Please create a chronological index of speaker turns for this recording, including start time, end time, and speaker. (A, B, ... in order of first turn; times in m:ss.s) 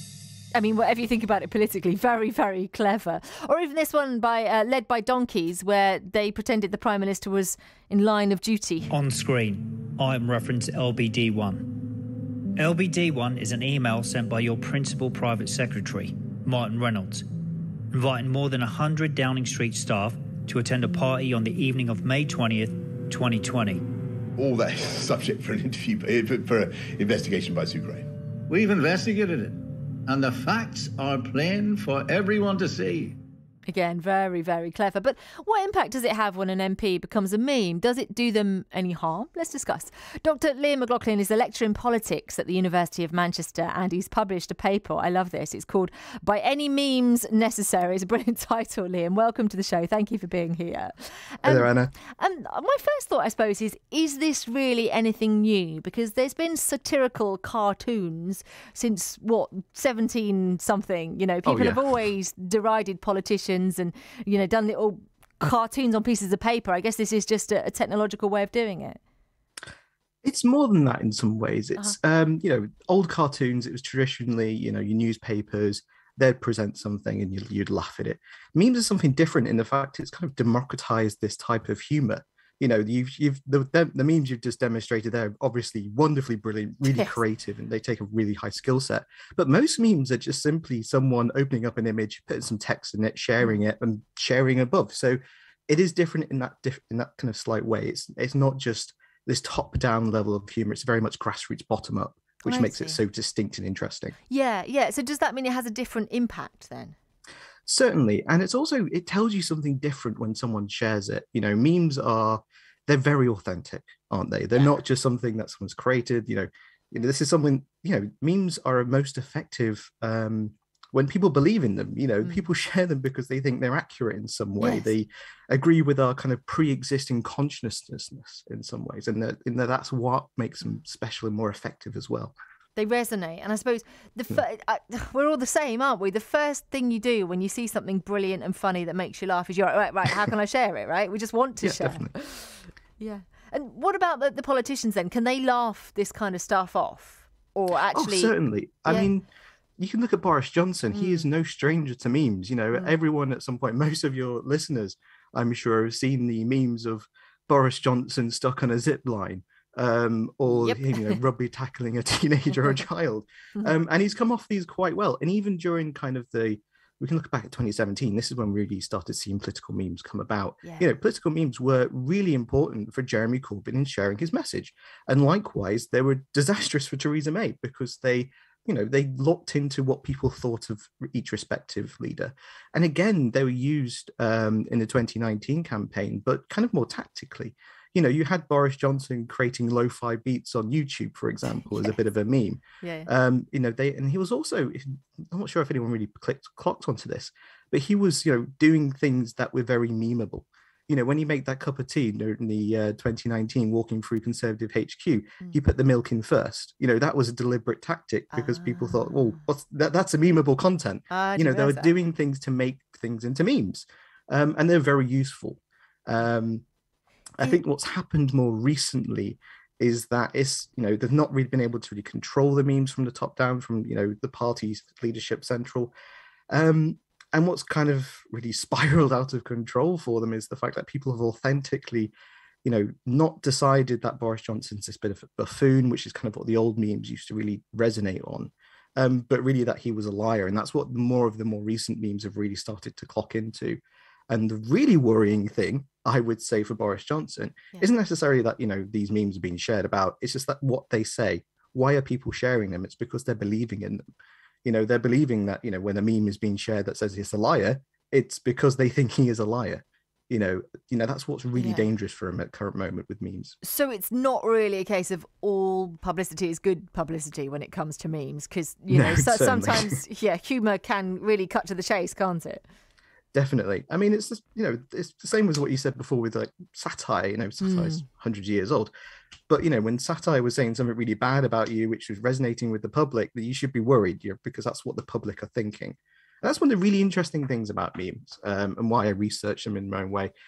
0:00.5-0:08.9 A
0:08.9-0:11.8 B
0:12.6-0:17.2 B
0:17.9-0:23.8 B
0:24.4-0:28.1 C
0:28.5-0:33.2 D
0:33.7-1:09.0 A
0:51.4-0:51.9 E
1:01.4-1:01.9 E
1:10.2-1:44.2 E
1:26.8-1:27.2 A
1:42.5-1:43.0 A
1:44.3-1:47.0 A
1:47.7-2:12.3 E
2:04.6-2:04.9 A
2:12.8-2:28.3 A
2:21.6-2:22.1 E
2:27.9-2:29.2 E
2:29.8-3:36.6 E
2:30.9-2:31.2 A
2:40.5-2:41.2 A
3:12.8-3:13.1 A
3:28.3-3:28.9 A
3:31.1-3:31.9 A
3:37.4-3:45.9 E
3:46.5-3:52.1 E
3:52.6-4:03.8 E
4:04.3-4:14.0 E
4:14.6-4:23.6 E
4:21.6-4:21.8 A
4:23.6-4:32.6 A
4:28.9-4:30.0 E
4:33.3-4:38.9 E
4:37.6-4:38.0 A
4:39.5-4:50.3 E